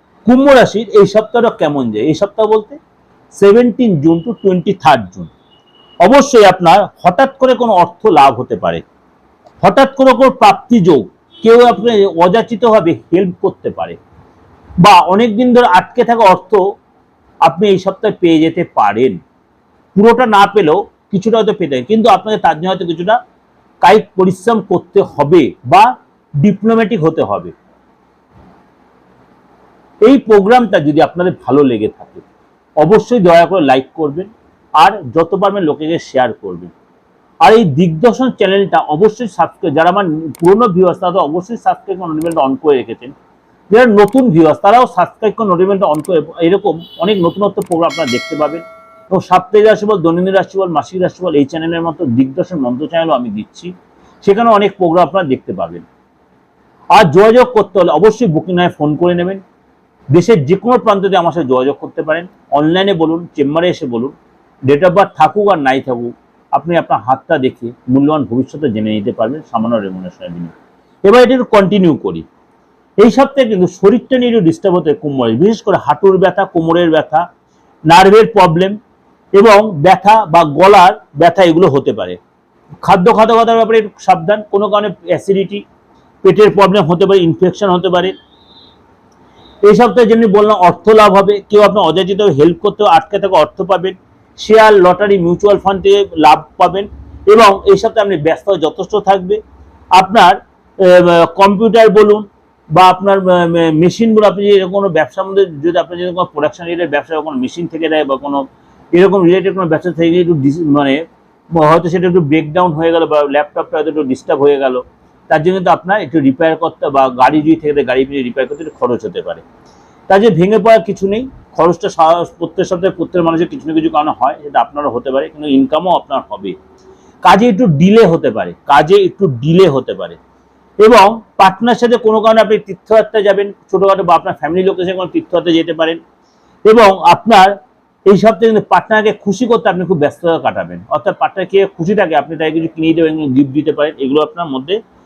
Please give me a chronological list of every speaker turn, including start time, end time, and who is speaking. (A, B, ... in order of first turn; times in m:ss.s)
0:00.2-0:02.8 A
0:03.4-0:05.3 A
0:06.0-0:08.8 A
0:09.6-0:14.0 A
0:14.8-0:16.6 A
0:17.4-0:19.2 A
0:20.0-0:23.2 A
0:23.8-0:25.9 A
0:26.4-0:27.5 A
0:30.0-0:32.2 A
0:32.8-0:36.7 A
0:37.4-0:43.1 A
0:43.7-0:55.9 A
0:56.9-0:59.4 A
1:00.1-1:04.2 A
1:04.7-1:10.5 A
1:11.1-1:12.2 A
1:13.0-1:17.3 A
1:17.9-1:18.8 A
1:19.4-1:22.2 A
1:22.8-1:25.6 A
1:26.2-1:28.1 A
1:29.7-1:39.4 A
1:40.0-1:51.0 A
1:51.6-1:59.4 A
2:00.1-2:06.6 A
2:07.2-2:10.2 A
2:10.8-2:16.0 A
2:16.7-2:17.5 A
2:18.1-2:24.8 A